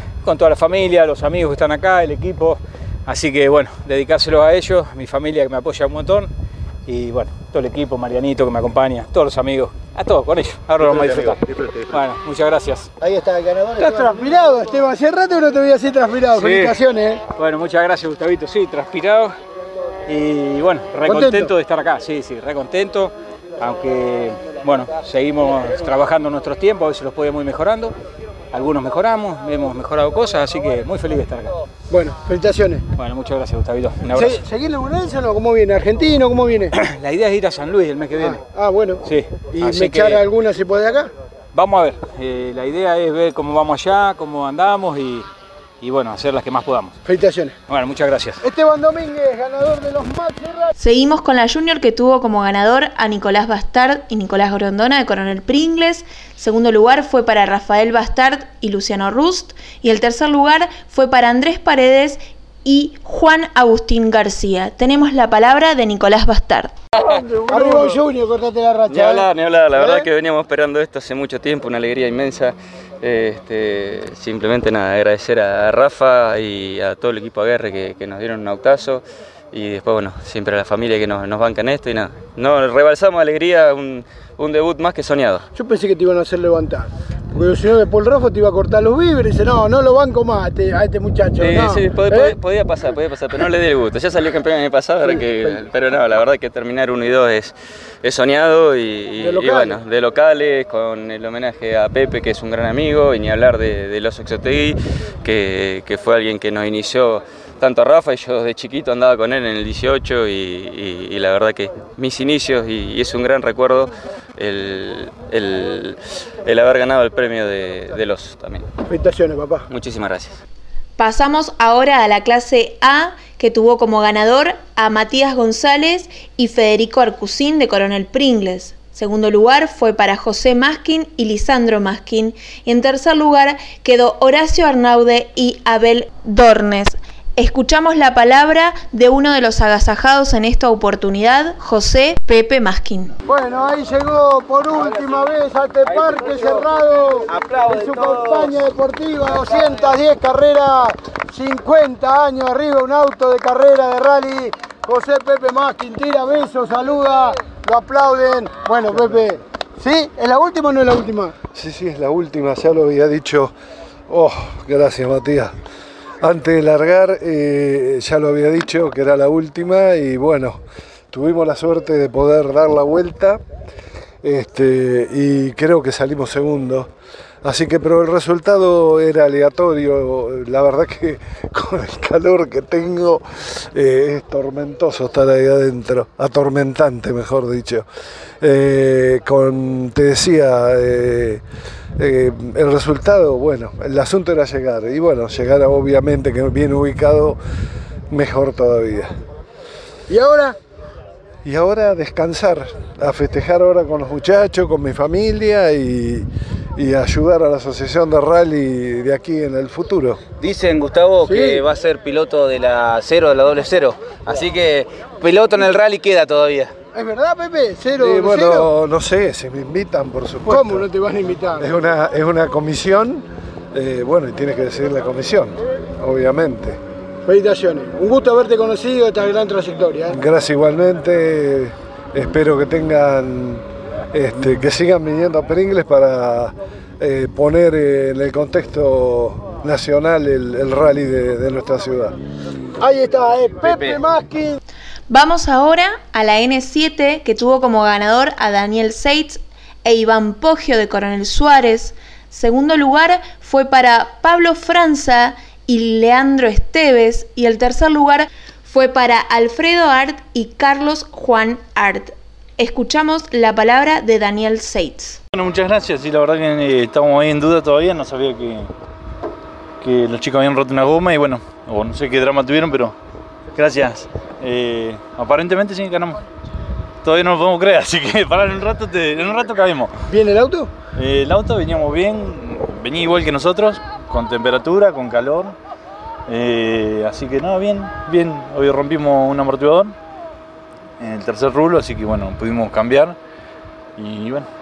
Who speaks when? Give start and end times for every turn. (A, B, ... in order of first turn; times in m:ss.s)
0:00.2-0:06.3 A
0:06.9-0:12.9 A
0:10.8-0:12.0 B
0:13.0-0:14.2 B
0:13.8-0:17.2 C
0:16.3-0:16.8 A
0:17.4-0:19.3 A
0:20.1-0:27.9 A
0:21.0-0:21.5 C
0:28.5-0:31.6 A
0:31.9-0:32.8 C
0:33.0-0:34.4 A
0:34.1-0:36.7 C
0:36.8-0:38.4 A
0:38.2-0:41.1 C
0:39.0-0:40.2 A
0:41.5-0:45.3 A
0:45.8-0:47.0 A
0:47.0-0:47.6 C
0:47.7-0:48.4 A
0:48.4-0:50.7 C
0:50.8-1:06.7 D
1:07.0-1:07.5 E
1:07.4-1:10.1 C
1:08.9-1:25.4 E
1:25.6-1:32.4 C
1:31.4-1:58.7 E
1:35.0-1:35.6 C
1:39.2-1:39.8 C
1:58.9-1:59.7 C
1:59.7-2:00.4 E
2:01.0-2:23.1 D
2:23.3-2:41.4 C
2:24.7-2:25.2 F
2:25.8-2:26.6 F
2:27.3-2:28.5 F
2:41.5-2:43.5 G
2:44.1-2:45.6 G
2:46.2-2:53.4 G
2:54.2-2:56.9 G
2:57.4-3:07.9 G
3:08.4-3:11.4 G
3:12.0-3:17.4 G
3:18.1-3:19.2 G
3:20.1-3:20.6 C
3:21.4-3:30.2 G
3:30.4-3:36.8 F
3:31.2-3:31.6 C
3:36.9-3:38.7 C
3:38.0-3:40.9 G
3:40.5-3:41.7 C
3:41.6-3:46.8 G
3:47.3-3:50.2 C
3:50.1-4:02.2 G
4:02.8-4:04.6 C
4:05.1-4:25.2 D
4:25.3-4:28.7 H
4:29.8-4:32.9 H
4:33.6-4:36.2 H
4:37.0-4:39.9 H
4:40.1-4:40.7 C
4:41.0-4:45.6 H
4:46.3-4:49.9 H
4:51.0-4:53.2 H
4:54.0-4:54.4 H